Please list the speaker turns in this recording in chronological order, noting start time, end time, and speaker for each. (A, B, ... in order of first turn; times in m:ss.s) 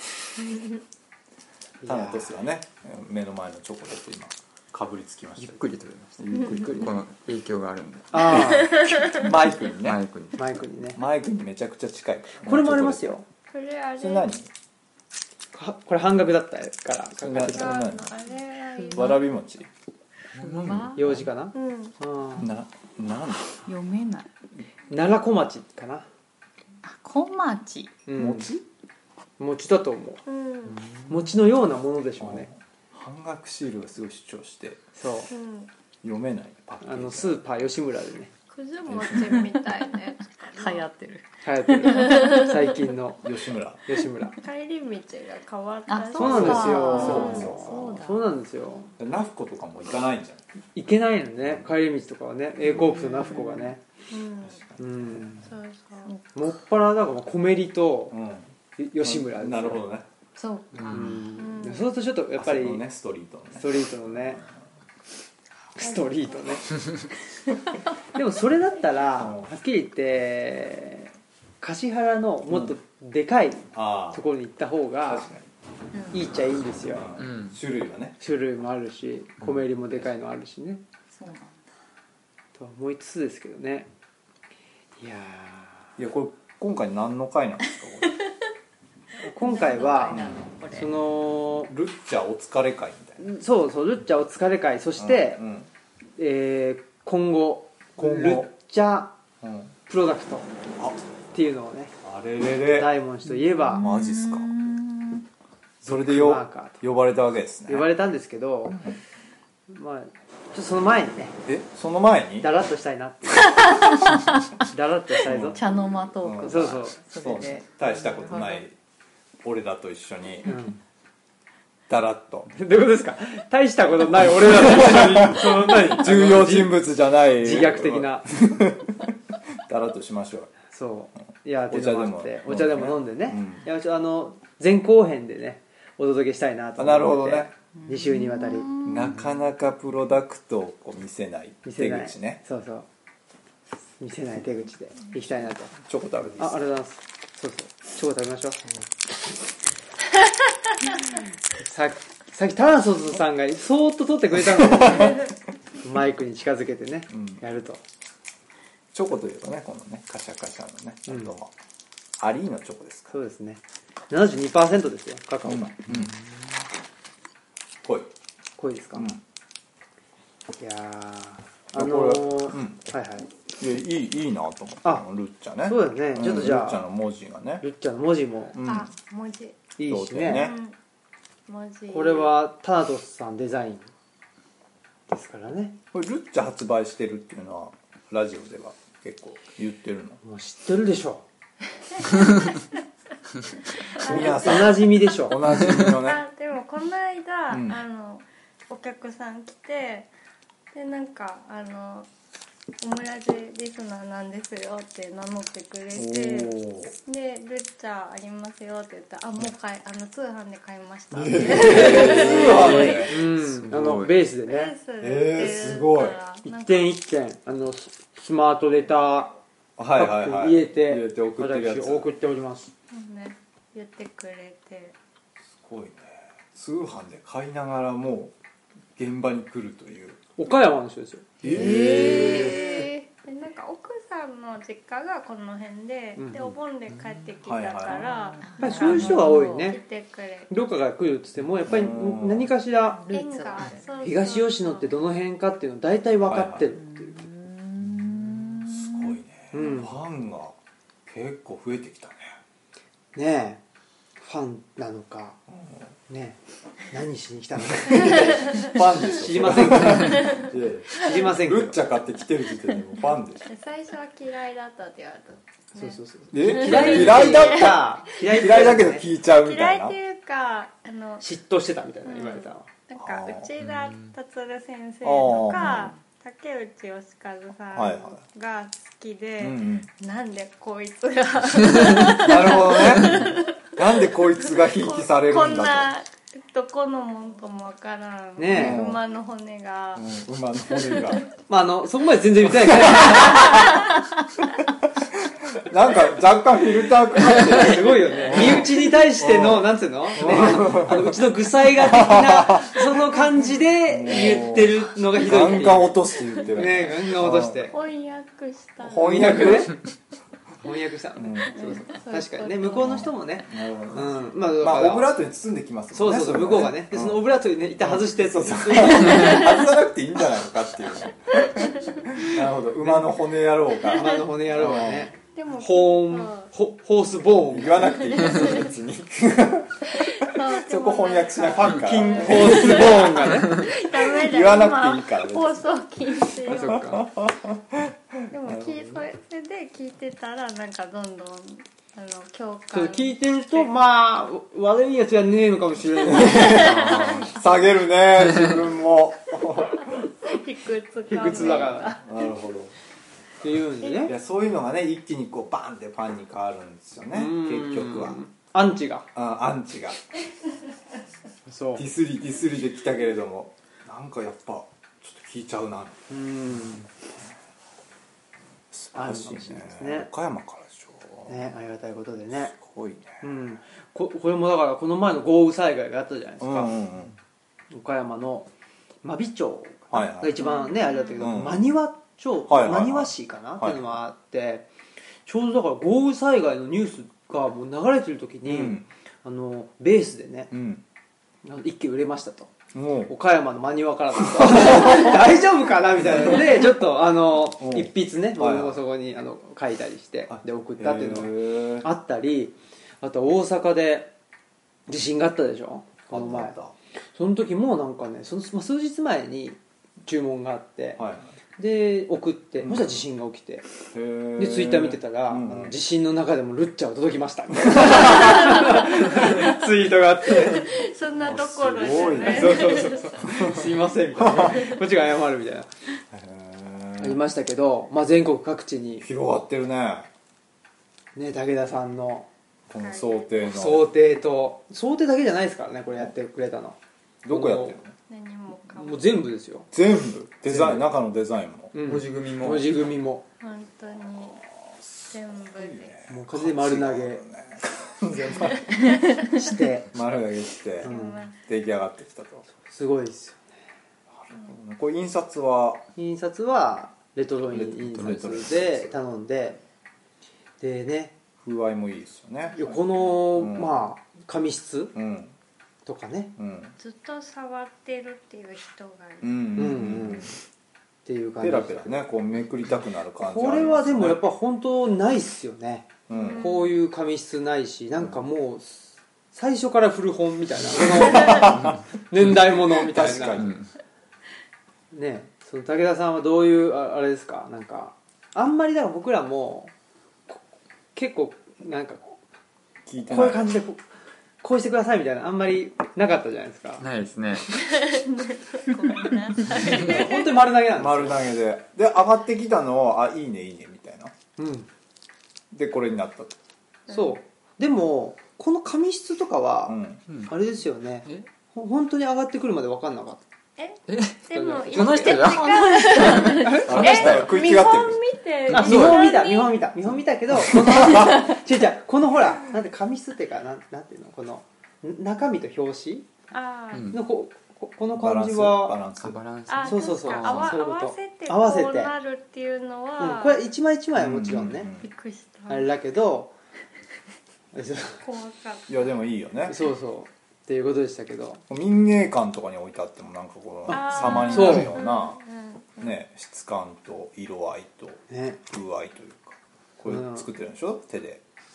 0:01.8-0:02.4 A
0:01.8-0:05.6 B
0:05.4-0:09.0 C
0:06.2-0:07.0 B
0:08.1-0:08.7 A
0:08.8-0:09.2 D
0:09.1-0:10.0 B
0:09.8-0:10.5 C
0:10.4-0:11.0 A
0:10.9-0:13.0 B
0:12.4-0:13.2 A
0:13.5-0:14.4 D
0:14.0-0:14.5 B
0:15.5-0:17.9 A
0:17.2-0:18.1 B
0:17.5-0:19.2 D
0:18.7-0:19.2 E
0:18.9-0:19.7 B
0:20.4-0:20.9 C
0:20.4-0:21.2 B
0:20.4-0:21.0 E
0:20.9-0:22.5 A
0:21.5-0:22.0 D
0:22.4-0:23.6 B
0:23.6-0:24.3 E
0:24.9-0:26.0 A
0:26.8-0:28.0 E
0:28.1-0:28.6 A
0:28.2-0:28.5 B
0:29.4-0:30.2 A
0:30.2-0:30.8 D
0:30.9-0:32.5 A
0:32.2-0:34.9 B
0:35.0-0:35.3 A
0:35.3-0:35.7 D
0:36.0-0:37.4 B
0:36.8-0:38.3 A
0:38.5-0:40.8 D
0:38.9-0:39.3 B
0:39.0-0:39.6 E
0:40.4-0:42.6 E
0:41.4-0:43.2 A
0:42.0-0:42.5 D
0:43.2-0:43.8 B
0:43.8-0:44.4 A
0:44.4-0:48.1 D
0:45.9-0:48.2 E
0:46.2-0:48.9 A
0:46.2-0:47.9 B
0:49.0-0:50.4 B
0:50.7-0:53.8 A
0:51.4-0:51.7 B
0:52.8-0:53.7 E
0:54.1-0:54.6 D
0:54.4-0:55.4 B
0:54.8-0:55.4 A
0:55.4-0:56.1 D
0:56.3-0:58.2 A
0:58.1-1:00.1 B
0:58.8-0:59.8 A
1:00.4-1:01.2 E
1:00.9-1:02.8 A
1:01.4-1:01.9 D
1:02.4-1:04.5 B
1:03.5-1:04.4 A
1:05.8-1:06.7 A
1:05.9-1:06.2 D
1:08.1-1:15.3 A
1:09.2-1:09.5 B
1:13.7-1:14.2 B
1:15.0-1:15.4 B
1:16.1-1:17.1 A
1:16.9-1:18.2 B
1:17.2-1:17.6 C
1:18.2-1:20.8 A
1:21.1-1:21.6 E
1:22.6-1:23.9 A
1:25.0-1:25.9 A
1:26.0-1:28.2 B
1:29.2-1:31.7 A
1:29.2-1:30.9 E
1:31.7-1:33.2 B
1:33.2-1:35.4 A
1:35.0-1:35.7 B
1:36.2-1:39.2 A
1:38.0-1:38.5 B
1:39.4-1:39.7 B
1:39.9-1:40.5 A
1:41.3-1:42.0 A
1:42.0-1:42.9 B
1:42.5-1:43.8 A
1:43.3-1:45.2 E
1:43.8-1:44.5 B
1:45.8-1:47.9 B
1:45.8-1:46.8 A
1:47.7-1:48.9 A
1:49.7-1:51.4 A
1:51.4-1:52.5 B
1:52.4-1:53.8 A
1:53.5-1:54.5 E
1:54.6-1:55.6 A
1:55.2-1:55.6 B
1:55.3-1:58.6 E
1:56.2-1:58.7 B
1:56.4-1:57.0 A
1:59.4-2:00.5 B
2:00.4-2:00.8 A
2:01.9-2:02.5 B
2:02.5-2:08.3 A
2:04.6-2:10.5 B
2:10.7-2:18.8 A
2:11.7-2:13.6 B
2:16.8-2:17.5 B
2:17.7-2:19.2 E
2:18.8-2:22.4 B
2:21.6-2:22.8 A
2:24.0-2:25.7 A
2:25.8-2:26.6 B
2:26.4-2:28.6 A
2:31.5-2:35.3 A
2:34.5-2:35.3 B
2:35.8-2:37.8 A
2:37.1-2:37.4 B
2:38.9-2:41.5 B
2:41.1-2:41.3 A
2:42.2-2:43.1 B
2:43.1-2:45.9 A
2:45.4-2:46.1 B
2:47.8-2:48.1 B
2:48.6-2:49.1 A
2:48.9-2:49.2 B
2:50.6-2:53.3 A
2:51.7-2:52.8 B
2:53.6-2:57.6 B
2:55.6-2:56.8 A
2:57.6-2:58.6 A
2:58.5-2:58.9 B
2:58.6-2:59.6 D
2:59.8-3:00.5 A
2:59.8-3:00.5 B
3:00.3-3:00.7 D
3:01.5-3:02.3 D
3:01.9-3:03.9 A
3:05.1-3:05.8 A
3:05.9-3:10.2 B
3:10.2-3:11.2 A
3:13.9-3:14.8 D
3:14.0-3:16.2 B
3:14.0-3:15.4 A
3:15.8-3:20.1 D
3:17.5-3:17.8 B
3:20.7-3:22.1 D
3:22.8-3:26.5 D
3:25.9-3:26.9 B
3:27.0-3:33.1 D
3:31.1-3:33.2 B
3:31.4-3:34.7 A
3:33.4-3:34.2 C
3:34.4-3:36.9 D
3:35.0-3:36.2 B
3:36.4-3:39.4 A
3:39.8-3:42.1 B
3:39.9-3:42.7 A
3:42.9-3:44.9 D
3:45.5-3:48.3 B
3:49.0-3:50.2 B
3:50.4-3:52.6 A
3:51.4-3:52.9 B
3:51.5-3:53.0 E
3:53.2-4:00.5 D
3:56.2-3:56.5 A
3:57.4-3:58.1 B
3:58.4-3:59.6 E
3:58.6-3:59.8 A
4:00.5-4:03.0 A
4:01.6-4:02.5 B
4:03.0-4:03.8 E
4:03.1-4:04.9 D
4:04.0-4:07.2 A
4:06.2-4:06.7 B
4:06.8-4:09.2 E
4:08.4-4:12.4 B
4:09.5-4:09.9 A
4:13.1-4:13.6 A
4:14.2-4:15.4 A
4:15.5-4:15.8 B
4:16.1-4:16.4 A
4:16.9-4:21.8 A
4:17.8-4:23.5 B
4:20.0-4:20.5 D
4:23.5-4:27.8 D
4:25.7-4:29.1 A
4:26.3-4:30.0 B
4:29.3-4:31.2 D
4:31.2-4:32.7 A
4:32.1-4:50.1 D
4:33.0-4:33.5 B
4:33.6-4:34.1 C
4:35.0-4:35.9 B
4:37.7-4:38.2 B
4:39.4-4:39.9 B
4:42.0-4:45.9 B
4:48.4-4:48.8 A
4:48.5-4:49.0 B
4:50.0-4:51.2 B
4:50.7-4:51.2 D
4:51.5-4:53.7 A
4:52.4-4:53.9 B
4:55.5-5:01.2 B
4:57.3-5:07.7 A
5:01.8-5:02.8 B
5:03.9-5:07.7 B
5:07.7-5:09.7 D
5:08.8-5:09.7 B
5:09.0-5:09.7 A
5:10.6-5:15.1 A
5:11.2-5:11.6 B
5:11.5-5:13.1 D
5:12.8-5:17.2 B
5:15.9-5:19.6 A
5:17.8-5:25.1 B
5:22.8-5:23.2 A
5:23.8-5:28.2 A
5:25.3-5:26.5 D
5:27.5-5:35.7 B
5:28.1-5:28.6 D
5:30.0-5:36.8 D
5:31.5-5:33.7 A
5:36.4-5:39.0 B
5:36.4-5:37.1 A
5:38.3-5:43.7 D
5:42.7-5:47.2 A
5:46.0-5:50.1 B
5:46.2-5:47.2 D
5:49.8-5:52.3 D
5:51.1-5:52.0 A
5:51.3-5:52.7 B
5:53.4-5:54.1 A
5:54.0-5:58.2 B
5:57.1-5:59.1 A
5:59.1-6:00.0 B
6:01.4-6:01.8 A
6:01.8-6:06.0 B
6:06.1-6:06.9 A
6:08.7-6:11.4 B
6:08.9-6:10.1 A
6:11.3-6:12.5 A
6:12.3-6:13.2 B
6:13.2-6:16.8 A
6:16.4-6:17.1 B
6:17.7-6:18.5 A
6:19.0-6:24.7 A
6:19.9-6:20.4 B
6:20.4-6:21.3 D
6:21.2-6:21.7 B
6:22.5-6:23.8 B
6:25.2-6:30.5 A
6:28.4-6:28.8 B
6:30.5-6:30.8 B
6:31.4-6:32.5 A
6:32.7-6:33.1 B
6:33.1-6:44.1 A
6:34.3-6:35.2 B
6:37.6-6:38.8 B
6:40.3-6:41.8 B
6:44.9-6:46.6 A
6:46.1-6:46.7 B
6:47.1-6:51.0 A
6:51.0-6:51.3 B
6:51.6-6:53.7 A
6:52.6-6:53.0 B
6:53.9-6:55.8 B
6:54.4-7:00.7 A
6:57.6-6:58.5 B
6:57.9-6:59.6 D
7:00.4-7:03.2 D
7:01.2-7:04.6 B
7:02.2-7:05.7 A
7:06.1-7:07.2 B
7:07.0-7:09.1 A
7:09.0-7:10.1 B
7:11.2-7:12.3 A
7:12.7-7:13.9 B
7:12.7-7:13.4 D
7:13.4-7:16.8 A
7:17.2-7:17.9 B
7:17.3-7:17.8 A
7:18.1-7:19.2 D
7:18.7-7:19.7 A
7:19.7-7:21.7 B
7:20.4-7:20.9 A
7:21.7-7:23.2 A
7:21.8-7:22.7 C
7:23.4-7:24.4 D
7:24.6-7:28.9 B
7:25.1-7:25.9 D
7:26.1-7:27.2 A
7:28.7-7:29.3 D
7:29.2-7:29.9 A
7:29.9-7:32.4 B
7:30.8-7:31.4 D
7:30.8-7:31.3 A
7:32.5-7:33.4 A
7:34.1-7:35.8 B
7:35.9-7:39.6 A
7:37.5-7:38.9 B
7:40.6-7:41.2 A
7:41.4-7:42.6 B
7:42.6-7:44.9 A
7:42.6-7:43.0 D
7:43.3-7:43.9 B
7:44.9-7:45.3 B
7:45.8-7:46.4 A
7:46.4-7:46.7 B
7:46.8-7:49.4 D
7:49.2-7:50.3 B
7:49.6-7:50.3 A
7:51.0-7:52.0 A
7:51.4-7:54.2 B
7:53.2-8:03.4 A
7:56.1-7:56.4 B
7:56.1-7:56.8 D
8:01.0-8:01.7 B
8:02.3-8:03.6 B
8:03.4-8:03.6 C
8:04.9-8:09.7 A
8:10.9-8:12.1 A
8:12.9-8:13.5 B
8:13.0-8:13.8 A
8:14.4-8:16.8 A
8:16.8-8:17.6 C
8:17.5-8:20.4 D
8:19.5-8:21.2 A
8:20.7-8:24.1 B
8:24.4-8:24.7 A
8:25.5-8:26.4 B
8:26.9-8:27.2 D
8:26.9-8:33.2 A
8:29.7-8:30.0 B
8:30.1-8:30.3 C
8:33.6-8:39.6 D
8:33.9-8:37.3 C
8:34.3-8:35.4 A
8:35.7-8:36.6 E
8:36.6-8:38.0 B
8:38.5-8:39.1 C
8:38.5-8:46.1 A
8:40.7-8:41.2 B
8:46.3-8:46.9 D
8:46.7-8:47.0 C
8:46.9-8:48.8 A
8:47.9-8:49.2 B
8:49.0-8:50.6 C
8:49.5-8:53.5 D
8:49.6-8:51.9 A
8:53.0-8:54.7 A
8:54.0-8:54.9 B
8:54.8-8:55.7 D
8:55.5-8:56.3 A
8:57.5-8:58.0 A
8:58.0-8:58.8 D
8:58.7-8:59.6 B
8:59.5-9:01.4 A
9:01.5-9:05.2 B
9:03.7-9:04.7 A
9:03.7-9:06.0 D
9:05.8-9:11.2 B
9:08.1-9:08.4 A
9:09.8-9:10.3 A